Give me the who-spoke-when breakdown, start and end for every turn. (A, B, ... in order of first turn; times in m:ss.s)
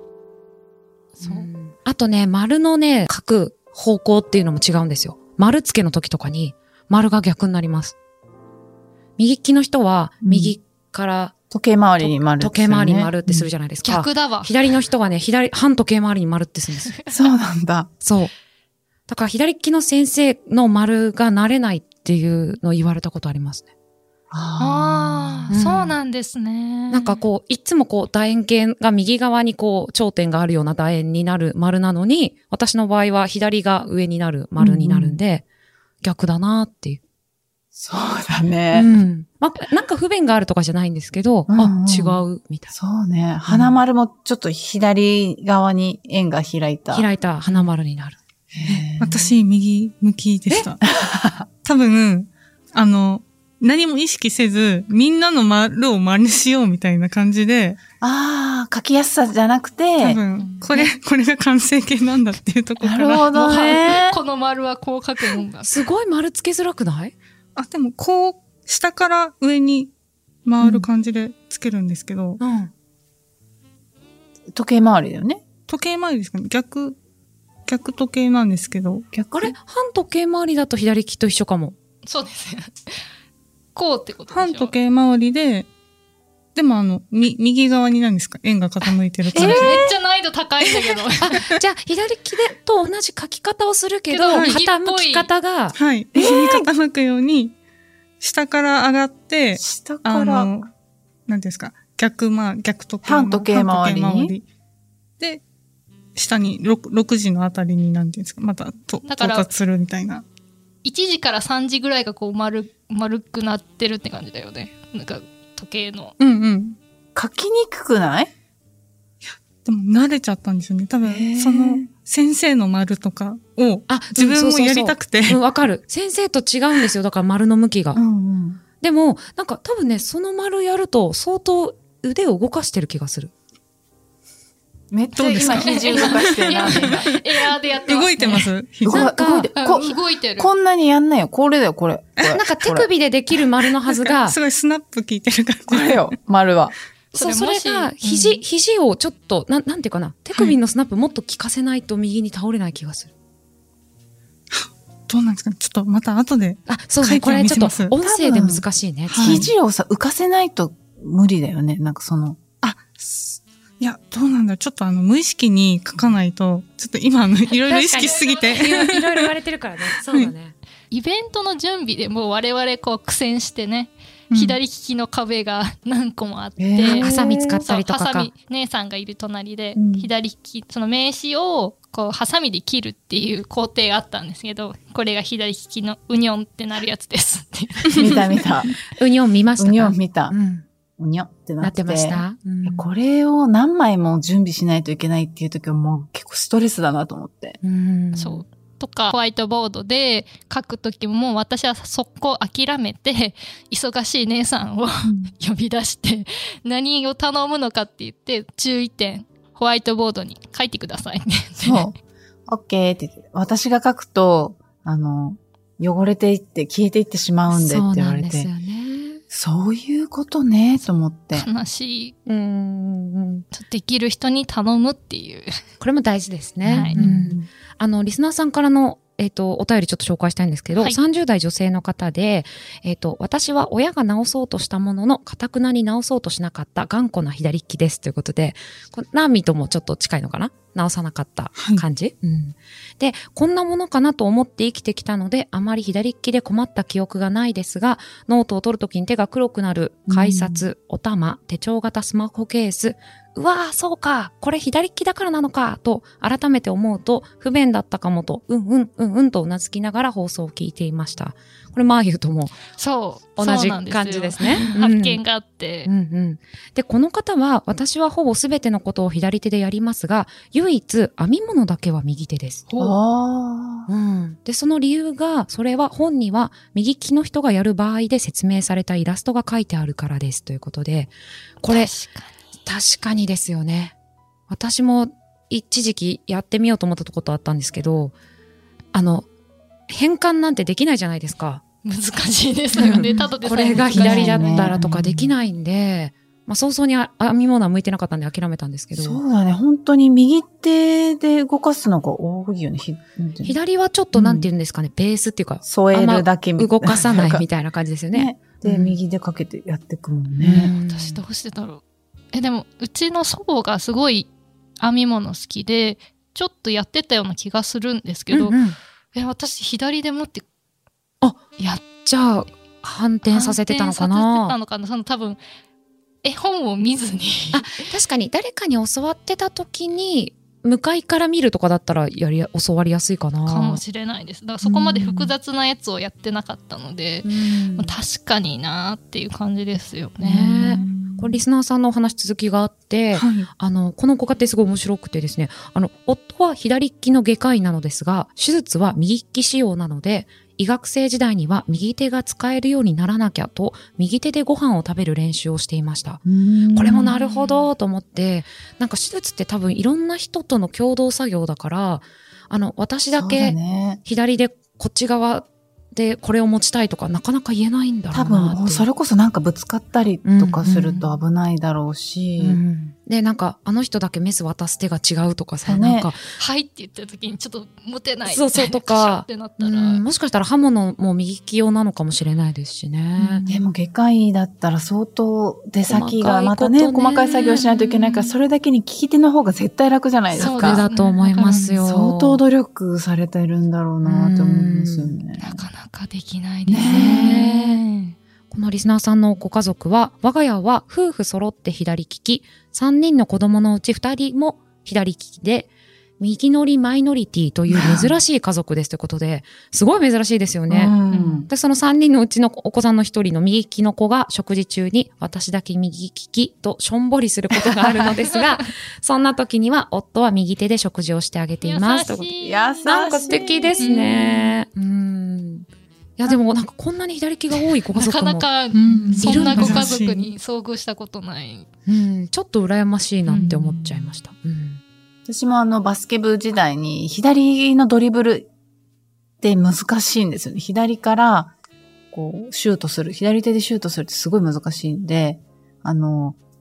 0:01.2-0:01.5 A
0:01.2-0:08.0 B
0:09.2-0:11.3 B
0:10.2-0:10.5 C
0:11.5-0:13.5 C
0:12.0-0:16.9 B
0:13.8-0:14.5 A
0:16.8-0:17.2 A
0:17.1-0:17.9 C
0:18.0-0:18.3 B
0:19.1-0:23.7 B
0:24.3-0:25.5 C
0:24.6-0:27.2 A
0:25.5-0:26.0 B
0:26.9-0:35.4 B
0:34.6-0:35.2 C
0:36.0-0:37.0 B
0:37.7-0:38.9 C
0:38.7-0:42.7 B
0:41.5-0:42.2 C
0:42.7-0:47.7 C
0:43.4-0:43.8 B
0:46.9-0:48.2 B
0:48.5-0:49.3 C
0:48.7-0:50.8 D
0:50.8-0:51.5 C
0:51.6-0:57.8 D
0:58.0-1:00.2 C
1:00.0-1:03.6 D
1:00.4-1:00.9 A
1:02.8-1:04.2 C
1:03.3-1:05.7 A
1:05.6-1:07.1 B
1:07.6-1:09.9 D
1:10.4-1:12.4 D
1:12.4-1:12.7 B
1:14.5-1:15.4 C
1:15.7-1:17.0 D
1:17.7-1:19.1 D
1:19.1-1:19.5 C
1:19.3-1:21.8 B
1:22.0-1:22.9 A
1:23.7-1:24.7 A
1:24.3-1:25.7 D
1:26.5-1:29.8 D
1:29.3-1:29.9 C
1:29.4-1:31.4 A
1:31.2-1:35.8 B
1:34.1-1:35.3 A
1:34.3-1:34.6 D
1:35.7-1:37.5 D
1:36.1-1:36.6 C
1:38.2-1:40.7 D
1:39.6-1:40.5 C
1:41.3-1:44.4 D
1:43.0-1:44.3 C
1:46.1-1:50.2 D
1:49.1-1:49.5 A
1:50.8-1:56.1 A
1:56.2-1:56.8 D
1:57.1-1:58.3 C
1:59.2-2:05.4 D
2:01.0-2:01.9 C
2:03.9-2:08.0 B
2:07.9-2:08.6 C
2:08.8-2:13.3 B
2:14.9-2:17.1 C
2:15.1-2:17.0 D
2:15.5-2:18.5 A
2:17.8-2:19.1 D
2:18.8-2:22.9 C
2:18.9-2:19.5 B
2:19.5-2:20.5 A
2:22.2-2:22.4 D
2:22.3-2:24.4 B
2:23.9-2:26.1 D
2:25.7-2:26.7 C
2:27.1-2:28.4 A
2:27.1-2:33.1 B
2:34.5-2:37.9 D
2:36.7-2:39.5 B
2:38.0-2:38.6 C
2:39.1-2:39.4 D
2:39.2-2:42.4 C
2:42.6-2:49.3 D
2:47.7-2:50.5 B
2:47.7-2:48.7 A
2:50.9-3:08.2 A
2:54.3-2:54.6 D
2:56.6-2:57.6 C
2:56.9-2:58.3 B
2:59.8-3:00.1 C
3:07.9-3:08.8 C
3:08.9-3:10.6 B
3:09.6-3:10.4 C
3:11.0-3:17.6 C
3:11.6-3:12.8 B
3:17.6-3:18.4 B
3:18.2-3:31.9 A
3:25.0-3:25.3 C
3:31.6-3:31.9 C
3:32.5-3:38.5 C
3:37.5-3:39.2 B
3:39.3-3:41.5 C
3:41.3-3:42.1 A
3:42.2-3:43.4 B
3:43.5-3:45.5 A
3:45.8-4:22.6 B
3:46.6-3:47.0 A
3:46.7-3:47.5 C
4:01.6-4:01.8 D
4:10.1-4:10.6 C
4:22.8-4:25.9 A
4:23.4-4:25.2 B
4:25.8-4:32.7 B
4:32.7-4:32.9 A
4:32.8-4:33.9 C
4:33.9-4:41.9 B
4:41.6-4:42.4 A
4:42.6-4:43.9 B
4:44.5-4:48.1 B
4:48.9-4:49.3 B
4:49.9-4:52.2 B
4:51.8-4:54.7 A
4:52.7-4:59.2 B
4:52.8-4:55.3 C
4:58.9-5:03.6 C
5:03.4-5:09.0 B
5:04.1-5:04.5 C
5:05.6-5:07.4 C
5:08.1-5:10.7 C
5:10.4-5:11.2 B
5:10.6-5:11.8 A
5:12.3-5:14.3 A
5:14.8-5:18.6 A
5:18.3-5:18.8 B
5:19.1-5:20.4 A
5:21.2-5:24.6 B
5:23.3-5:25.4 A
5:26.2-5:27.7 A
5:27.5-5:33.8 B
5:33.4-5:40.8 A
5:34.6-5:35.3 C
5:37.2-5:38.0 B
5:40.2-5:56.2 B
5:40.3-5:41.4 C
5:43.1-5:43.5 D
5:56.2-5:57.2 C
5:56.7-6:08.9 B
5:57.1-5:57.6 A
6:03.1-6:04.0 C
6:08.1-6:12.6 C
6:10.2-6:11.1 B
6:12.4-6:16.2 B
6:15.6-6:16.1 C
6:16.4-6:20.0 A
6:18.2-6:23.5 B
6:23.2-6:30.8 C
6:25.9-6:28.1 B
6:30.3-6:31.8 A
6:30.3-6:32.4 B
6:31.4-6:35.6 C
6:34.0-6:35.2 B
6:35.4-6:38.1 A
6:36.7-6:37.4 C
6:36.8-6:37.8 B
6:38.5-6:51.0 B
6:47.7-6:48.1 C
6:50.7-6:51.5 C
6:51.1-6:51.4 A
6:51.5-7:02.3 B
6:58.2-6:58.6 A
7:01.6-7:02.8 A
7:02.4-7:04.5 C
7:02.8-7:09.9 B
7:07.9-7:11.7 A
7:08.7-7:10.3 D
7:08.8-7:09.6 C
7:11.8-7:14.8 B
7:13.3-7:14.2 C
7:15.2-7:18.5 C
7:19.4-7:21.5 C
7:22.1-7:26.4 C